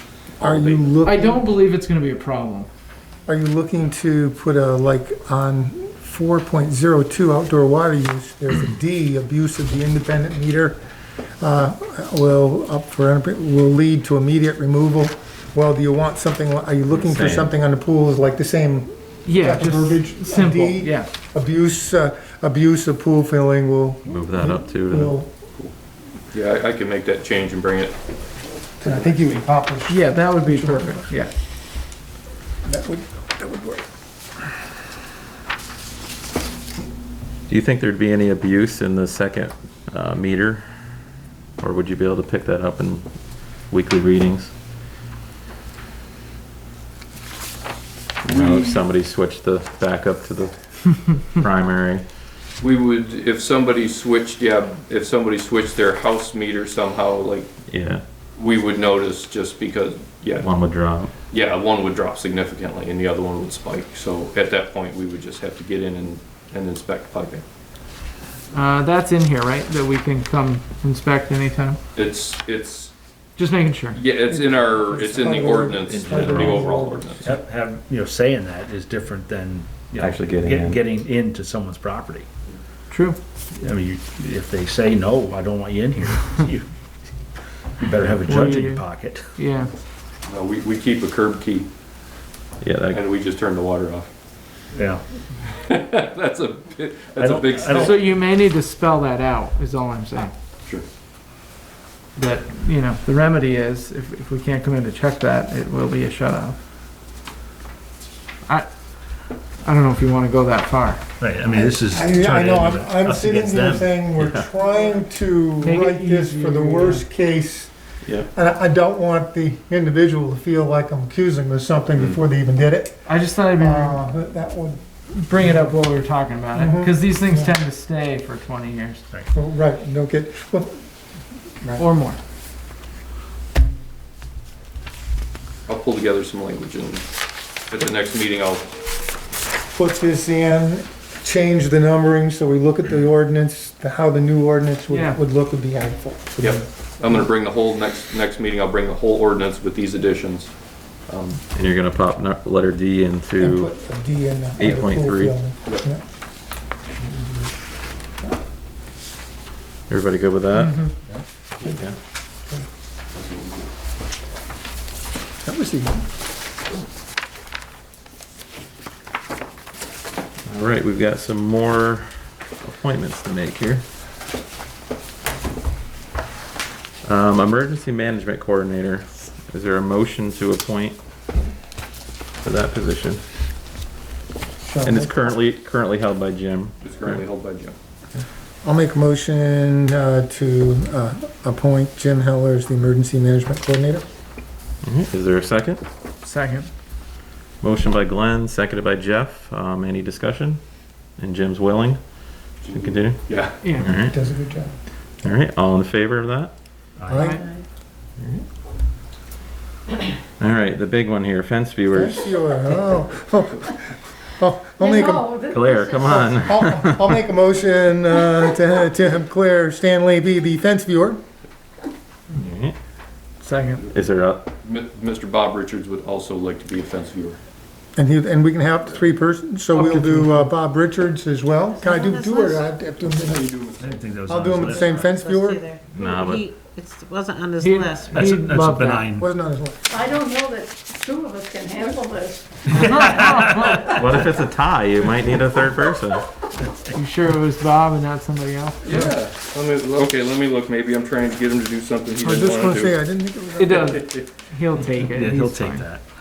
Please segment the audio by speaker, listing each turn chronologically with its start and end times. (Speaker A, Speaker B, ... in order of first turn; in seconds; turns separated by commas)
Speaker A: 0.4-0.9, Speaker B: 0.4-1.5, Speaker C: 1.1-2.7, Speaker B: 3.3-10.8, Speaker B: 11.4-25.3, Speaker D: 16.9-17.5, Speaker C: 19.3-21.1, Speaker D: 24.1-25.2, Speaker A: 26.3-27.9, Speaker B: 28.8-31.1, Speaker C: 29.9-31.3, Speaker B: 32.6-33.9, Speaker D: 37.5-41.0, Speaker D: 41.6-44.5, Speaker D: 48.2-52.0, Speaker A: 48.2-48.8, Speaker A: 52.6-57.5, Speaker D: 57.7-58.0, Speaker A: 58.4-60.5, Speaker D: 60.4-61.1, Speaker A: 61.3-67.4, Speaker C: 68.5-71.8, Speaker A: 72.0-72.9, Speaker C: 73.4-74.0, Speaker A: 73.9-77.3, Speaker B: 74.3-77.3, Speaker D: 75.9-76.7, Speaker E: 77.2-82.3, Speaker D: 80.0-80.8, Speaker C: 82.9-83.2, Speaker E: 83.6-86.7, Speaker E: 87.8-89.3, Speaker C: 88.3-89.7, Speaker A: 90.3-91.7, Speaker D: 92.6-93.0, Speaker A: 92.9-94.1, Speaker E: 94.7-95.0, Speaker A: 95.5-98.1, Speaker E: 97.2-98.0, Speaker C: 97.7-100.3, Speaker C: 102.2-106.6, Speaker C: 109.6-111.0, Speaker E: 111.2-114.2, Speaker B: 111.5-117.7, Speaker D: 114.2-114.5, Speaker C: 115.6-117.0, Speaker D: 118.0-118.3, Speaker B: 118.3-124.8, Speaker C: 123.1-124.0, Speaker C: 125.1-129.0, Speaker B: 125.3-125.8, Speaker B: 126.5-127.6, Speaker B: 129.3-130.8, Speaker C: 131.8-132.2, Speaker A: 135.7-137.1, Speaker A: 137.7-138.7, Speaker B: 139.7-146.7, Speaker C: 144.9-145.2, Speaker A: 146.4-151.4, Speaker D: 151.5-153.7, Speaker B: 153.4-156.0, Speaker D: 154.6-155.5, Speaker D: 159.9-160.9, Speaker D: 161.6-162.0, Speaker A: 163.2-163.5, Speaker B: 165.4-166.0, Speaker D: 170.5-173.8, Speaker D: 177.0-181.0, Speaker D: 182.4-183.2, Speaker B: 184.6-185.2, Speaker D: 184.8-187.2, Speaker A: 186.8-187.8, Speaker B: 188.6-194.1, Speaker D: 194.8-195.8, Speaker C: 196.2-196.7, Speaker D: 197.6-204.2, Speaker A: 202.6-203.6, Speaker C: 203.6-203.9, Speaker B: 203.9-204.8, Speaker D: 205.2-206.5, Speaker E: 207.0-207.3, Speaker B: 207.1-207.4, Speaker C: 207.1-207.4, Speaker D: 208.2-208.5, Speaker D: 210.4-212.4, Speaker B: 211.9-215.5, Speaker F: 214.8-216.4, Speaker D: 215.5-217.0, Speaker B: 216.1-221.2, Speaker D: 222.3-222.8, Speaker C: 223.4-223.8, Speaker D: 223.9-224.5, Speaker A: 224.6-227.4, Speaker B: 228.0-233.6, Speaker C: 229.7-230.5, Speaker G: 231.7-232.6, Speaker A: 233.0-233.8, Speaker E: 233.8-235.0, Speaker B: 234.3-235.6, Speaker G: 234.9-238.2, Speaker D: 235.9-236.5, Speaker C: 237.6-239.1, Speaker E: 238.1-239.3, Speaker B: 239.2-239.9, Speaker F: 239.9-243.0, Speaker E: 242.8-243.9, Speaker C: 242.9-243.9, Speaker F: 243.7-244.0, Speaker D: 243.9-246.2, Speaker C: 246.9-249.1, Speaker A: 248.8-253.0, Speaker B: 252.2-254.0, Speaker C: 253.6-255.8, Speaker A: 253.7-254.2, Speaker E: 255.0-256.1